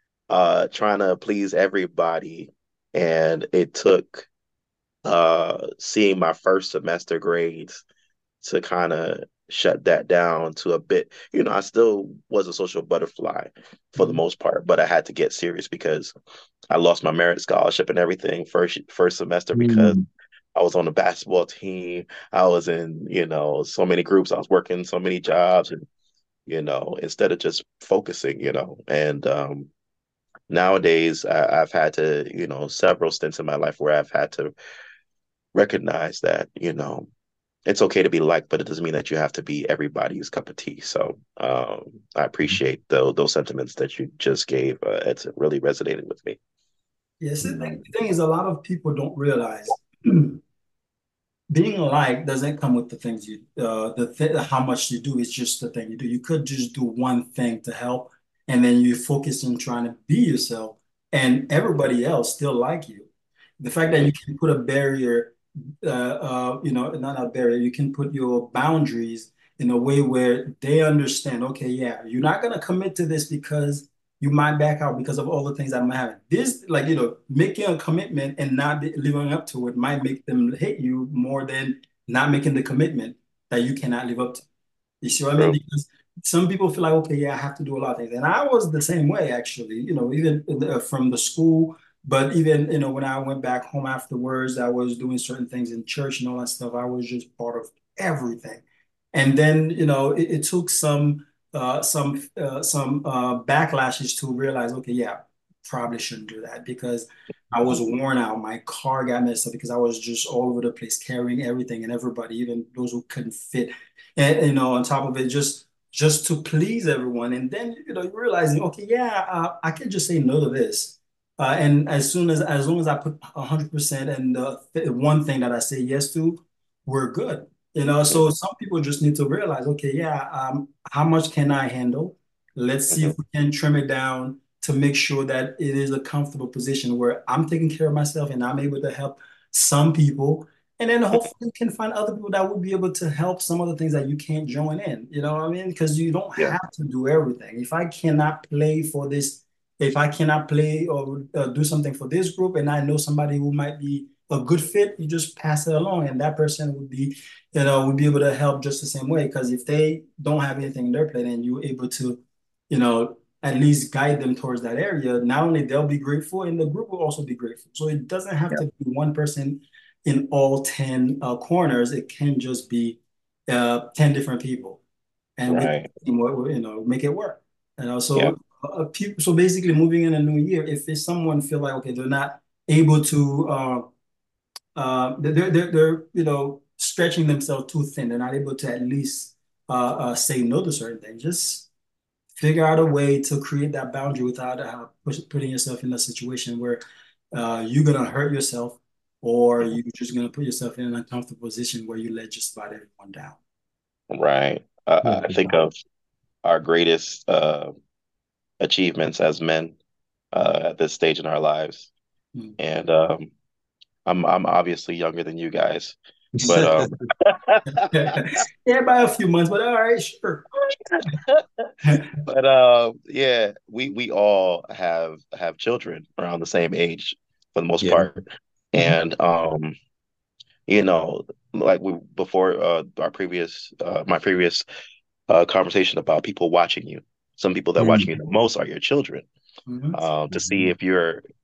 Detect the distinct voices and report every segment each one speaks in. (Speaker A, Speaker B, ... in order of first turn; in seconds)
Speaker A: 0.3-4.3, 5.0-7.8, 8.4-16.1, 16.7-20.0, 20.6-25.9, 26.5-29.7, 30.5-34.5, 35.5-37.1, 37.7-46.4, 47.5-47.7, 175.5-175.9, 204.1-205.7, 206.4-207.7, 208.6-209.8, 210.3-211.9, 212.6-213.3, 214.1-217.9, 221.1-221.7, 222.2-229.7, 230.7-234.6, 235.3-239.3, 239.9-241.2
Speaker B: 19.5-20.1, 47.5-47.7, 205.0-205.5, 216.3-216.9, 227.8-228.1, 237.8-238.1, 240.3-240.7
Speaker C: 47.2-50.4, 51.5-84.4, 85.0-174.8, 175.4-183.9, 184.8-191.7, 192.4-196.8, 197.3-203.4, 216.4-216.8, 217.7-220.4, 221.8-222.2, 239.7-240.0